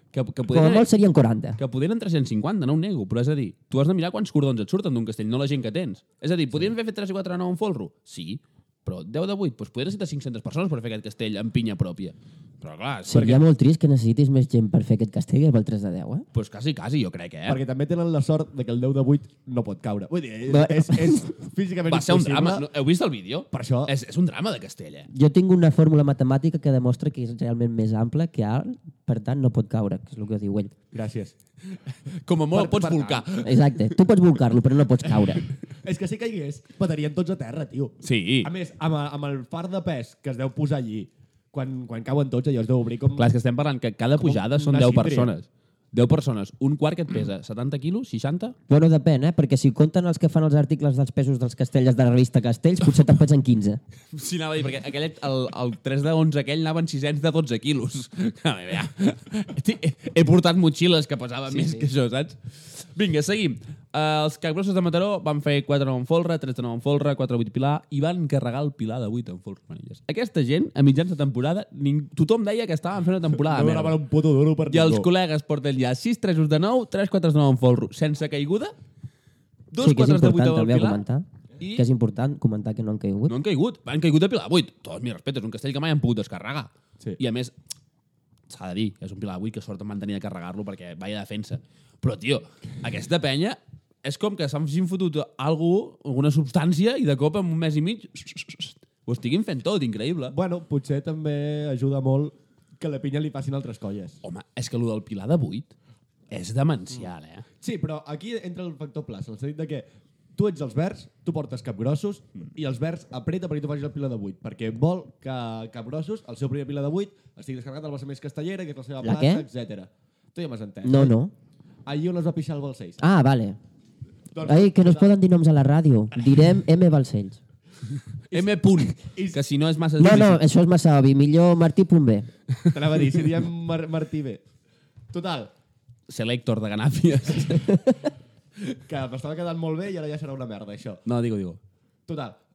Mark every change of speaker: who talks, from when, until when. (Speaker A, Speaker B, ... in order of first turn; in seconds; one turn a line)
Speaker A: 0.1-0.9
Speaker B: 0.5-1.6
Speaker A: 1.6-13.4
Speaker B: 13.1-16.2
Speaker A: 16.3-17.6
Speaker C: 17.4-22.7
Speaker B: 20.5-21.3
Speaker A: 21.9-25.1
Speaker C: 23.5-23.9
Speaker B: 25.1-30.8
Speaker C: 30.9-31.3
Speaker A: 32.2-33.7
Speaker C: 32.5-33.3
Speaker B: 33.4-35.4
Speaker C: 35.8-43.3
Speaker A: 38.0-38.5
Speaker A: 43.2-48.5
Speaker C: 44.2-45.3
Speaker B: 48.7-53.8
Speaker A: 54.1-74.0
Speaker B: 61.5-61.9
Speaker C: 73.3-75.1
Speaker A: 74.7-78.7
Speaker A: 79.7-81.0
Speaker B: 79.8-83.3
Speaker A: 81.6-81.8
Speaker A: 83.3-87.5
Speaker A: 88.5-100.3
Speaker C: 100.3-104.2
Speaker A: 104.2-105.7
Speaker A: 106.3-107.5
Speaker C: 107.6-121.2
Speaker B: 119.0-119.5
Speaker B: 120.8-121.3
Speaker C: 121.8-123.0
Speaker B: 123.0-123.6
Speaker C: 124.3-125.1
Speaker B: 124.4-127.4
Speaker A: 128.3-130.4
Speaker C: 128.3-129.4
Speaker B: 130.0-132.3
Speaker C: 132.7-134.4
Speaker C: 135.1-135.5
Speaker A: 136.1-137.8
Speaker B: 137.5-138.1
Speaker C: 138.7-141.0
Speaker A: 141.1-141.6
Speaker C: 142.1-142.4